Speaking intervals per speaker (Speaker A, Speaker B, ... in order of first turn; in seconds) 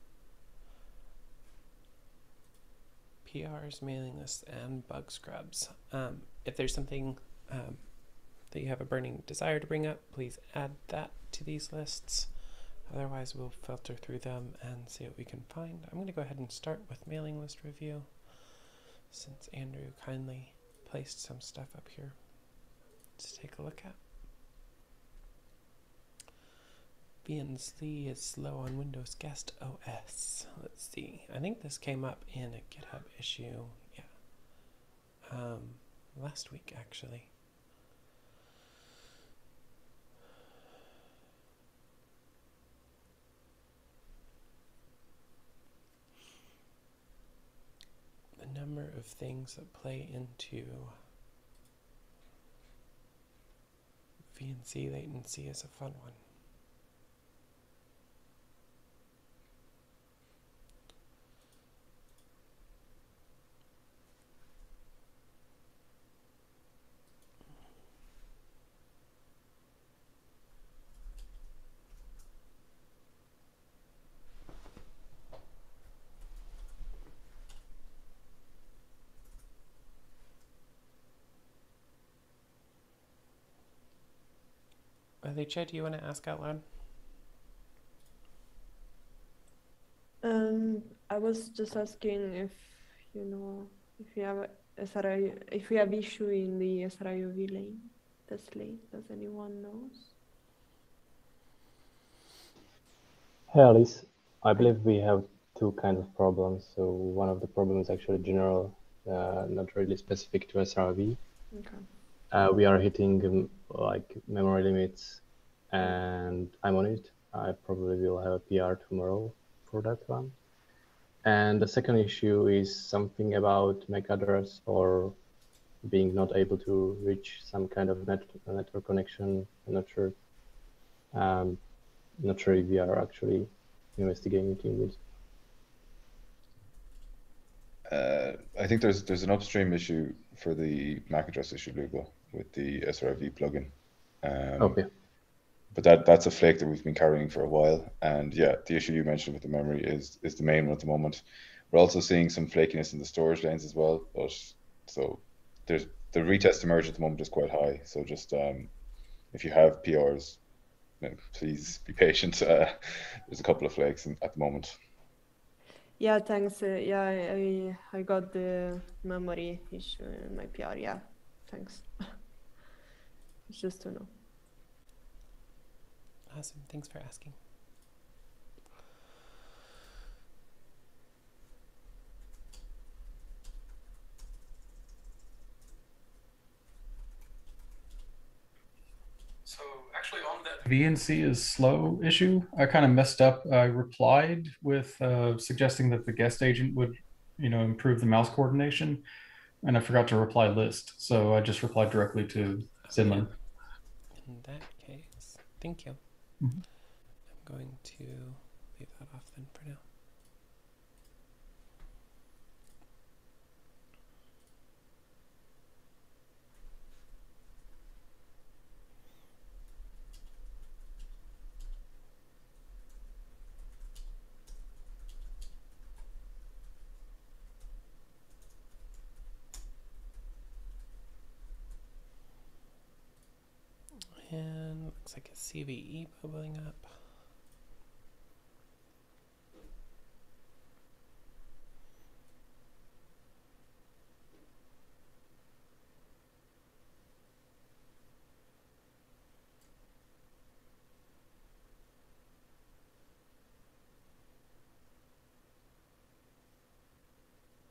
Speaker A: 3.2-22.4, 23.2-24.0, 27.2-37.4, 48.4-51.0, 54.3-56.2, 85.2-86.7, 176.3-177.4, 202.9-203.3, 204.1-206.3, 207.3-209.8, 234.2-237.2
Speaker B: 90.2-100.1, 111.5-111.9, 166.0-172.2, 173.5-174.1
Speaker C: 103.5-111.2, 112.3-120.3, 121.2-125.2, 125.8-130.2, 131.1-131.6, 132.2-135.0, 144.6-144.9
Speaker D: 137.9-144.8, 145.7-158.7, 159.3-160.4, 161.0-164.8
Speaker E: 189.4-199.0, 199.6-203.3